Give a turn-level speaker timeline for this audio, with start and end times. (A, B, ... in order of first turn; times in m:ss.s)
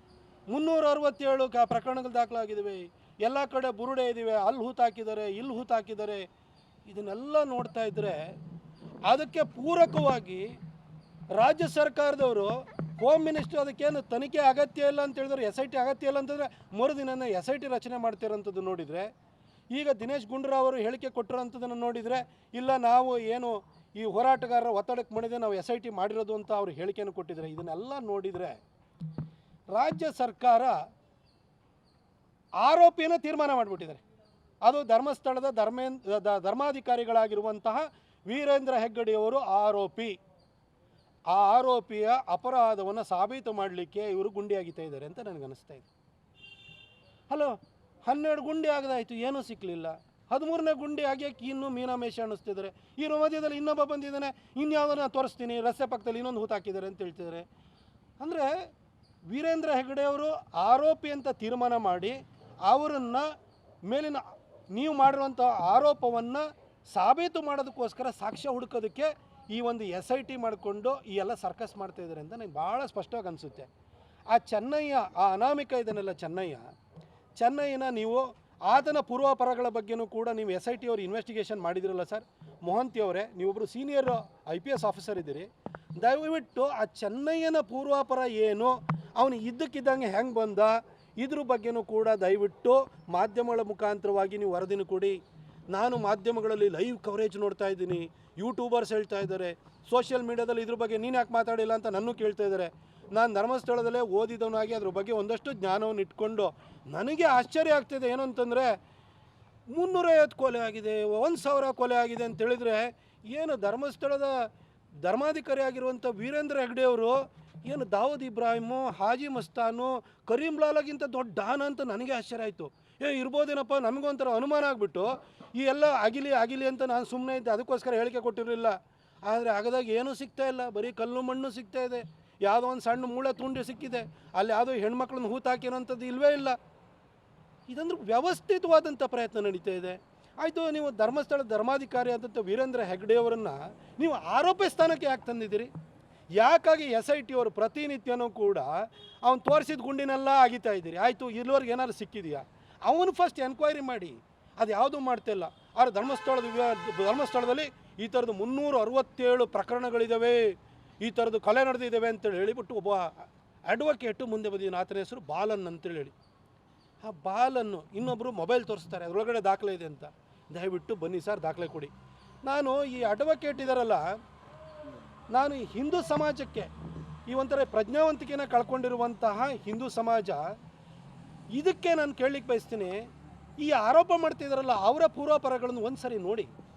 0:00.5-0:06.2 A
0:06.8-0:08.3 A
0:09.1-0:10.4 A
0:11.4-0:19.1 A
0:19.7-0:28.6 A
0:29.7-0:30.8 A
0:32.6-0:34.0 A
0:34.6-0:40.2 A
0:41.3-0:45.8 A
0:47.3-0:57.4 A
0:58.2-0:58.5 A
0:59.3-1:02.2 A
1:02.7-1:03.3 A
1:03.8-1:04.2 A
1:04.7-1:13.7 A
1:14.3-1:16.7 A
1:17.4-1:35.2 A
1:35.7-1:48.8 A
1:49.7-1:54.4 A
1:55.0-2:16.6 A
2:17.7-2:25.7 A
2:26.4-2:43.1 A
2:43.7-2:46.1 A
2:47.0-2:51.9 A
2:52.4-2:54.0 A
2:55.3-2:56.7 A
2:57.3-3:00.4 A
3:01.6-3:03.0 A
3:03.6-3:06.5 A